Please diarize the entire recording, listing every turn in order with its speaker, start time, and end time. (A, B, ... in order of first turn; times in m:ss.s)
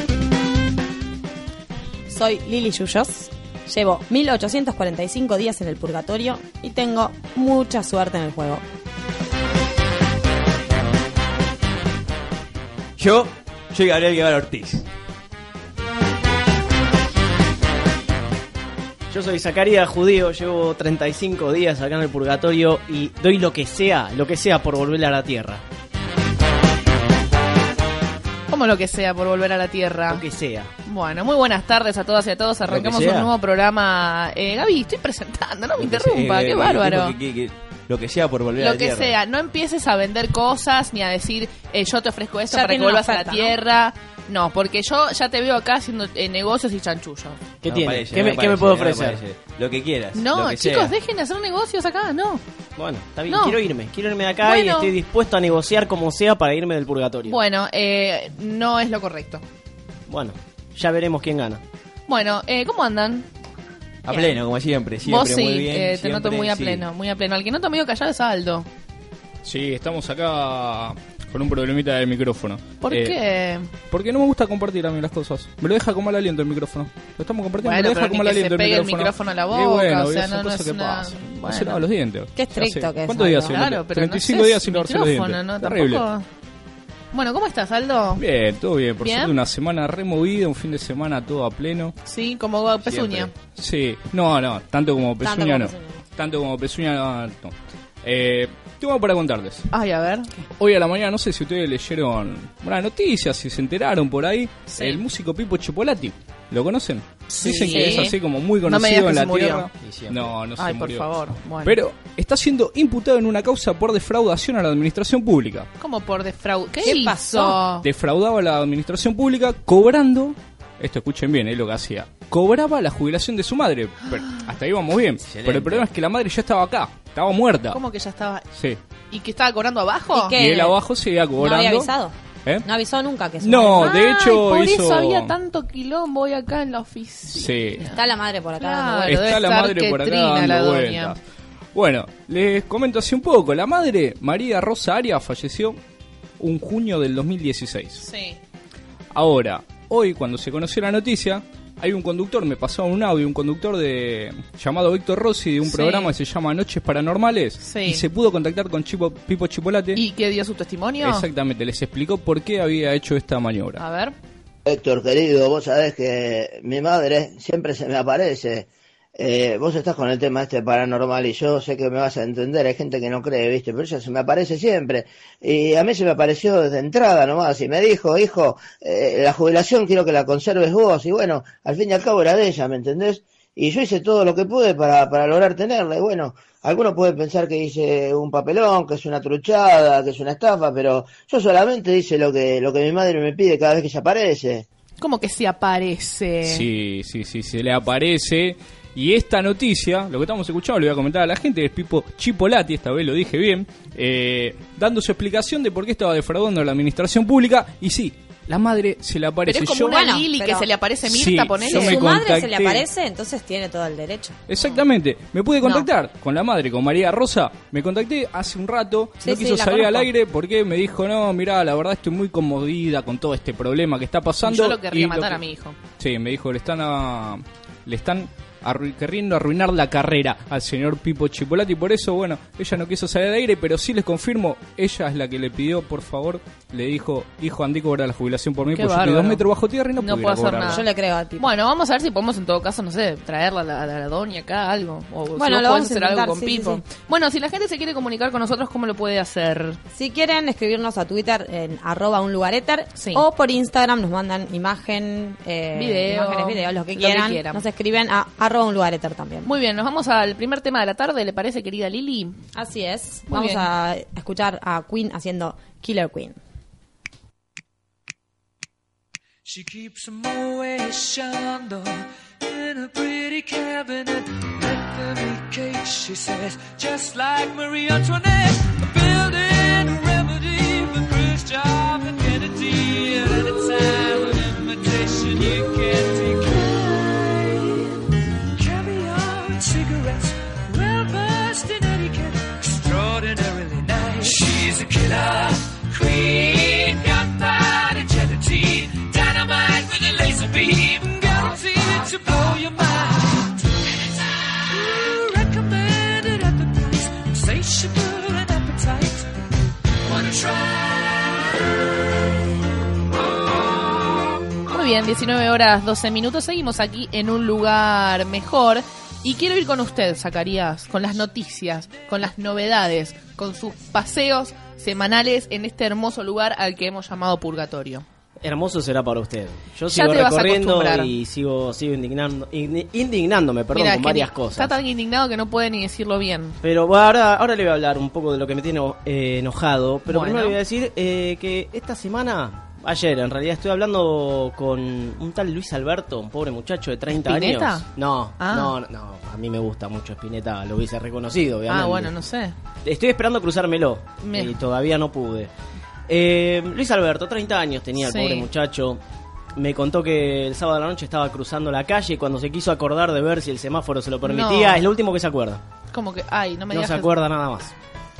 0:02.1-0:08.6 A
0:13.0-0:14.8 B
0:19.1-0:25.6 C
0:28.5-0:30.2 D
0:30.1-0:30.7 C
0:30.8-0:37.1 D
0:32.6-0:33.3 B
0:35.8-0:39.2 B
0:38.6-0:47.4 D
0:42.5-0:43.6 A
0:47.6-0:49.2 C
0:47.6-0:50.9 B
0:50.1-0:52.4 D
0:52.8-0:57.4 C
0:53.3-0:53.6 D
0:54.4-0:54.9 D
0:57.2-0:59.4 D
1:00.1-1:01.6 C
1:02.1-1:03.3 D
1:04.0-1:06.8 B
1:05.0-1:08.7 D
1:09.4-1:13.2 E
1:12.8-1:13.7 D
1:13.9-1:26.0 E
1:17.6-1:21.8 D
1:22.4-1:23.6 A
1:23.4-1:26.2 D
1:27.1-1:28.2 D
1:28.2-1:31.9 E
1:29.0-1:29.3 D
1:32.0-1:33.3 D
1:32.8-1:33.3 B
1:33.5-1:39.6 E
1:35.2-1:36.0 A
1:39.7-1:40.3 D
1:40.6-1:51.1 E
1:44.7-1:45.0 D
1:47.3-1:49.7 D
1:47.4-1:48.1 A
1:49.8-1:50.3 B
1:50.6-1:51.8 D
1:51.6-1:55.7 E
1:55.8-1:57.8 D
1:56.8-1:57.4 A
1:57.3-2:07.8 E
2:04.1-2:04.4 D
2:05.2-2:05.9 B
2:07.7-2:08.4 D
2:09.1-2:10.4 D
2:10.1-2:10.8 A
2:10.4-2:11.9 E
2:11.4-2:14.0 A
2:13.4-2:15.3 E
2:13.8-2:18.0 D
2:17.3-2:17.8 E
2:17.9-2:19.1 A
2:18.6-2:21.2 D
2:19.0-2:21.2 E
2:21.7-2:25.8 E
2:26.4-2:28.0 E
2:28.0-2:28.4 D
2:29.1-2:40.0 E
2:35.6-2:36.1 D
2:37.6-2:38.0 D
2:39.9-2:41.3 D
2:41.0-2:43.8 E
2:43.8-2:44.1 D
2:44.6-3:14.6 F
3:15.0-3:16.7 D
3:16.4-3:30.0 E
3:29.4-3:32.0 D
3:29.9-3:30.7 A
3:31.0-3:32.8 E
3:31.6-3:34.4 A
3:34.5-3:45.4 E
3:35.6-3:35.9 D
3:39.2-3:40.1 A
3:44.4-3:45.8 D
3:46.0-4:00.8 E
3:58.7-3:59.4 D
4:00.0-4:00.8 D
4:00.6-4:01.5 A
4:01.4-4:09.8 D
4:05.3-4:06.8 A
4:09.9-4:19.5 A
4:12.9-4:13.2 D
4:15.7-4:17.6 D
4:19.4-4:22.4 D
4:22.5-4:26.4 A
4:23.3-4:23.7 D
4:29.4-5:09.3 G
5:10.0-5:11.3 G
5:14.7-5:28.0 D
5:28.4-5:34.8 C
5:29.9-5:31.1 D
5:33.7-5:36.6 D
5:36.6-5:52.1 C
5:40.1-5:40.6 D
5:47.1-5:48.7 D
5:51.7-5:52.5 D
5:52.8-5:55.5 C
5:54.2-5:54.6 D
5:56.1-5:59.0 C
5:58.0-5:58.5 D
5:59.6-6:05.6 C
6:04.2-6:04.8 D
6:05.9-6:07.1 D
6:06.7-6:07.7 C